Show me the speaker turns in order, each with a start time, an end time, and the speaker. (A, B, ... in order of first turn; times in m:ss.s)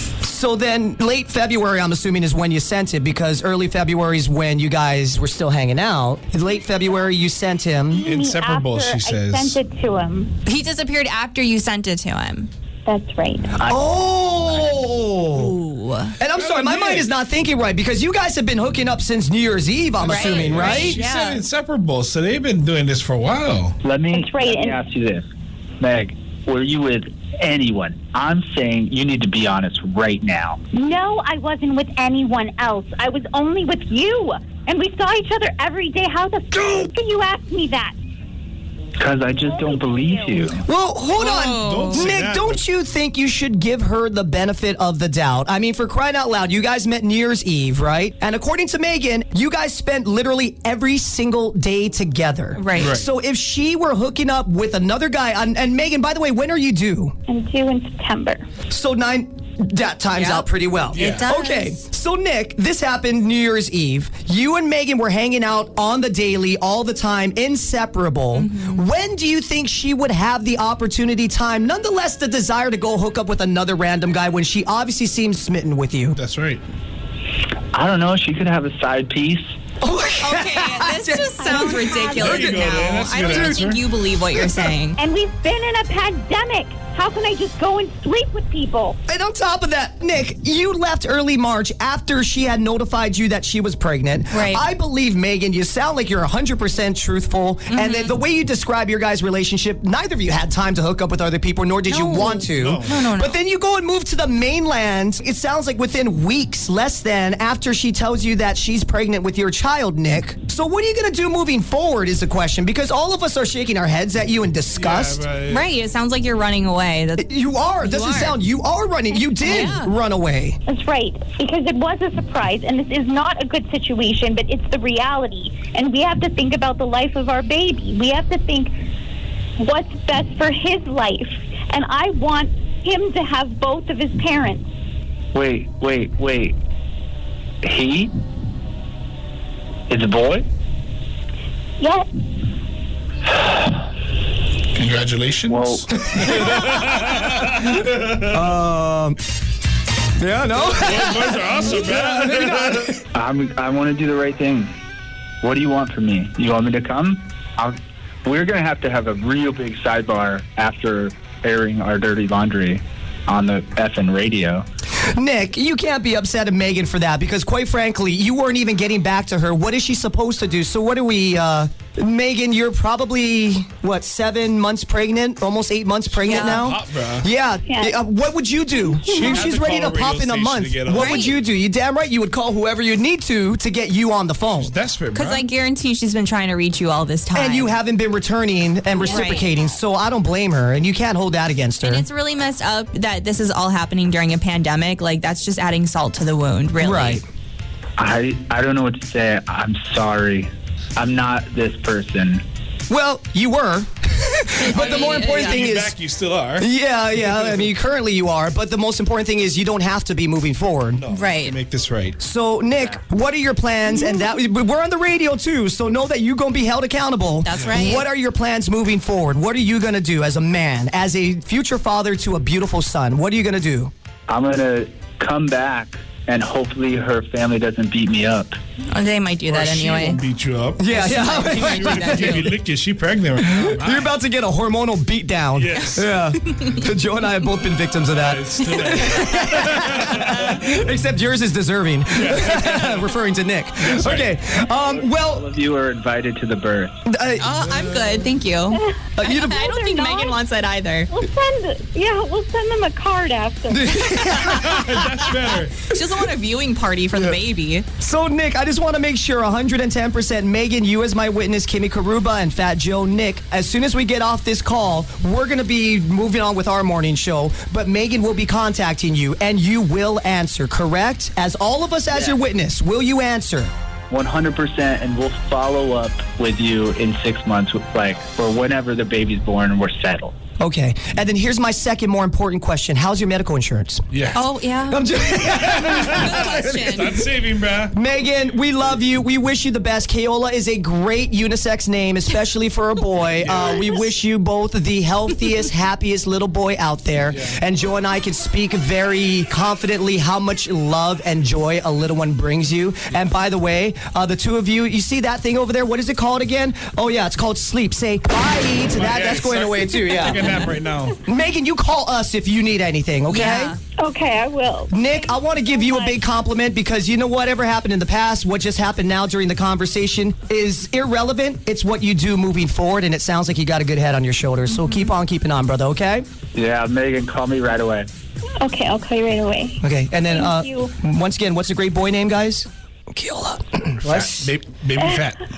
0:00.2-0:08.0 A
0:08.0-0:10.4 B
0:08.0-0:09.6 C
0:10.4-0:12.5 D
0:12.8-0:13.6 B
0:13.6-0:15.6 A
0:15.3-0:16.2 D
0:16.2-0:21.0 A
0:16.3-0:17.1 C
0:20.0-0:23.8 C
0:20.0-0:21.4 D
0:23.8-0:25.3 E
0:24.1-0:24.8 B
0:25.8-0:30.6 E
0:30.7-0:37.9 B
0:39.0-0:40.6 E
0:39.5-0:40.5 B
0:40.6-0:57.1 A
0:41.1-0:42.1 D
0:41.6-0:42.6 C
0:52.6-0:52.9 D
0:52.8-0:53.1 C
0:57.3-0:58.5 B
0:58.7-1:16.2 A
1:00.1-1:01.7 D
1:00.9-1:01.3 C
1:08.3-1:08.8 D
1:16.1-1:16.6 C
1:17.7-1:19.4 E
1:19.8-1:23.7 A
1:20.2-1:25.0 D
1:21.4-1:22.6 B
1:22.2-1:23.8 C
1:24.4-1:24.6 A
1:25.0-1:29.0 B
1:29.1-1:55.2 A
1:34.3-1:34.6 D
1:37.7-1:38.1 D
1:41.9-1:43.3 D
1:42.6-1:43.0 C
1:54.7-1:55.7 C
1:55.5-1:57.2 D
1:57.2-2:00.6 A
1:57.8-1:58.4 D
1:59.4-1:59.9 D
2:00.7-2:08.8 B
2:09.6-2:14.6 B
2:15.3-2:16.6 E
2:17.6-2:18.1 E
2:19.9-2:20.5 E
2:21.8-2:22.1 B
2:24.7-2:28.4 C
2:25.5-2:25.9 E
2:26.0-2:27.0 A
2:28.3-2:29.2 A
2:30.2-2:33.0 A
2:30.5-2:33.0 C
2:33.1-2:34.7 E
2:35.4-2:44.6 E
2:45.0-3:04.7 A
2:56.2-2:57.3 C
2:56.3-2:56.6 D
2:57.7-2:58.0 B
2:59.1-3:01.4 C
2:59.1-2:59.4 B
3:00.9-3:01.3 D
3:04.5-3:05.5 C
3:05.1-3:07.7 D
3:07.3-3:12.0 A
3:09.0-3:09.8 B
3:09.1-3:09.4 D
3:11.8-3:17.2 D
3:16.8-3:17.2 A
3:18.0-3:22.4 E
3:22.9-3:26.0 A
3:24.6-3:25.7 D
3:25.4-3:27.7 C
3:26.6-3:31.0 A
3:31.0-3:32.2 C
3:31.1-3:31.6 D
3:32.2-3:43.9 A
3:37.4-3:38.0 D
3:37.6-3:37.9 C
3:44.3-3:48.6 E
3:48.9-3:50.2 D
3:49.5-3:50.9 C
3:50.8-3:52.4 A
3:50.8-3:52.6 D
3:51.6-3:54.1 C
3:53.4-4:05.5 A
3:55.6-3:56.2 C
3:58.1-4:00.7 C
4:02.1-4:03.1 C
4:03.8-4:04.4 C
4:04.6-4:07.0 E
4:07.1-4:07.5 A
4:07.4-4:11.1 D
4:07.6-4:08.3 C
4:09.2-4:09.7 A
4:09.5-4:10.4 B
4:11.1-4:14.8 B
4:13.7-4:15.0 A
4:14.2-4:14.6 D
4:14.5-4:15.9 C
4:15.8-4:17.8 D
4:18.0-4:33.7 A
4:32.1-4:32.4 E
4:34.1-4:40.3 E
4:40.6-4:44.3 A
4:44.1-4:44.4 C
4:44.3-4:45.5 D
4:44.9-4:47.3 A
4:45.6-4:48.0 C
4:46.0-4:47.1 D
4:47.9-5:10.6 A
4:53.3-4:54.0 C
4:57.2-4:57.6 C
5:08.9-5:11.2 C
5:11.2-5:13.8 A
5:13.3-5:13.8 D
5:14.0-5:16.2 B
5:14.9-5:26.2 A
5:26.5-5:28.1 E
5:28.6-5:30.9 B
5:29.8-5:34.5 A
5:34.0-5:35.5 C